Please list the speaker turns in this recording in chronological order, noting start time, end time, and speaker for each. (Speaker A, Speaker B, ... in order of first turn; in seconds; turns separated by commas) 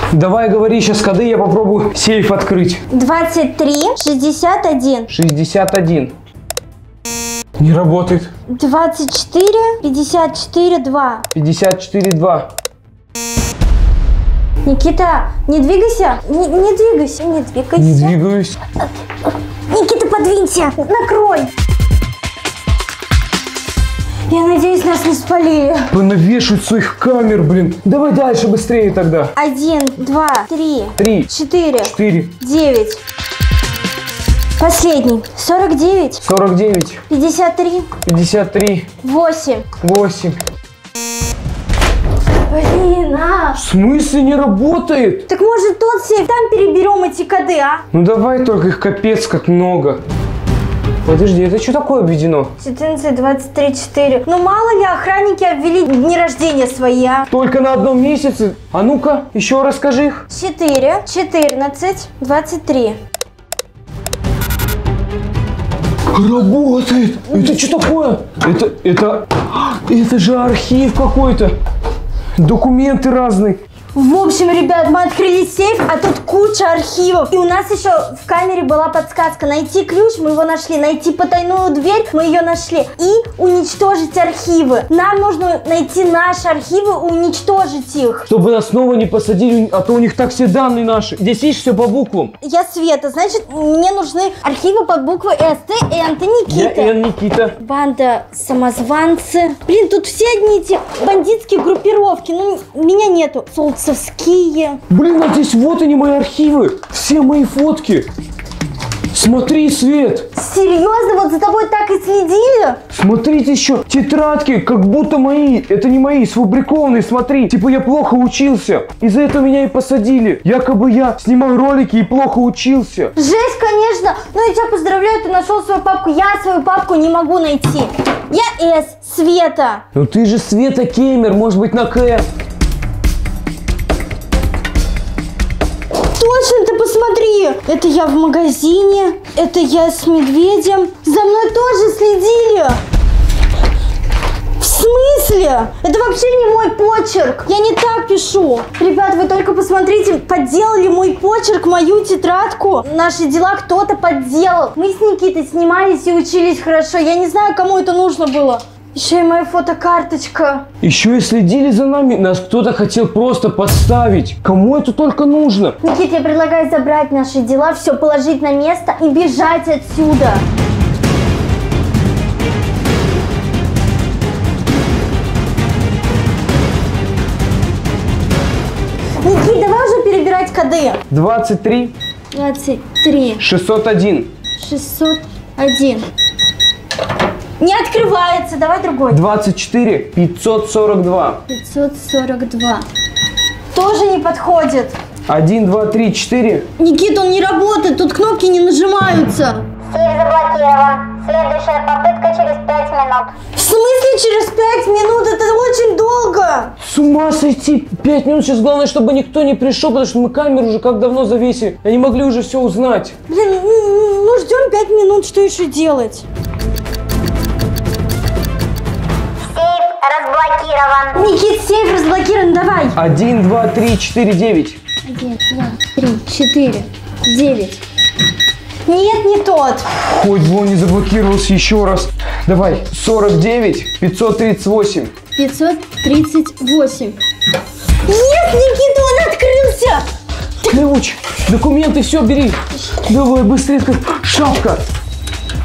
Speaker A: 0.1-2.8, Speaker B: 2.9-5.1, Speaker A: 5.1-6.1, Speaker A: 7.6-8.3, Speaker B: 8.5-11.2, Speaker A: 11.3-12.5, Speaker B: 14.7-18.1, Speaker A: 17.8-18.6, Speaker B: 19.7-21.5, Speaker B: 24.3-25.9, Speaker A: 25.9-29.3, Speaker B: 29.4-33.0, Speaker A: 31.0-31.3, Speaker A: 31.8-32.3, Speaker B: 34.6-36.2, Speaker A: 36.2-37.0, Speaker B: 37.1-37.9, Speaker A: 38.0-38.9, Speaker B: 39.0-39.7, Speaker A: 39.8-40.4, Speaker B: 42.5-43.6, Speaker A: 43.5-45.3, Speaker B: 45.3-47.8, Speaker A: 47.9-50.0, Speaker A: 51.0-52.5, Speaker B: 52.6-57.3, Speaker A: 57.3-60.2, Speaker B: 60.3-63.0, Speaker A: 66.1-71.5, Speaker A: 72.4-73.6, Speaker B: 73.9-88.3, Speaker A: 88.3-92.3, Speaker B: 92.4-96.9, Speaker A: 96.5-97.6, Speaker B: 97.6-104.8, Speaker A: 104.9-108.1, Speaker A: 109.1-110.3, Speaker B: 110.3-112.8, Speaker A: 112.9-123.1, Speaker B: 123.2-129.8, Speaker A: 129.9-132.3, Speaker B: 136.1-142.8, Speaker B: 144.6-160.7, Speaker A: 160.8-165.8, Speaker B: 165.8-170.4, Speaker B: 179.2-181.0, Speaker A: 181.1-181.9, Speaker B: 182.3-183.4, Speaker A: 183.4-184.3, Speaker B: 184.6-186.1, Speaker B: 187.6-189.2, Speaker A: 189.1-191.4, Speaker B: 191.5-192.9, Speaker B: 193.7-195.0, Speaker A: 195.3-196.7, Speaker B: 196.8-199.7, Speaker C: 199.9-203.3, Speaker B: 203.5-206.7, Speaker A: 206.8-213.2, Speaker B: 213.3-216.2, Speaker C: 219.5-221.1, Speaker B: 221.1-223.0, Speaker A: 223.0-224.8, Speaker B: 225.1-227.8, Speaker B: 228.9-229.9, Speaker A: 230.0-235.1, Speaker B: 235.3-237.2, Speaker B: 238.1-240.1, Speaker A: 240.6-244.8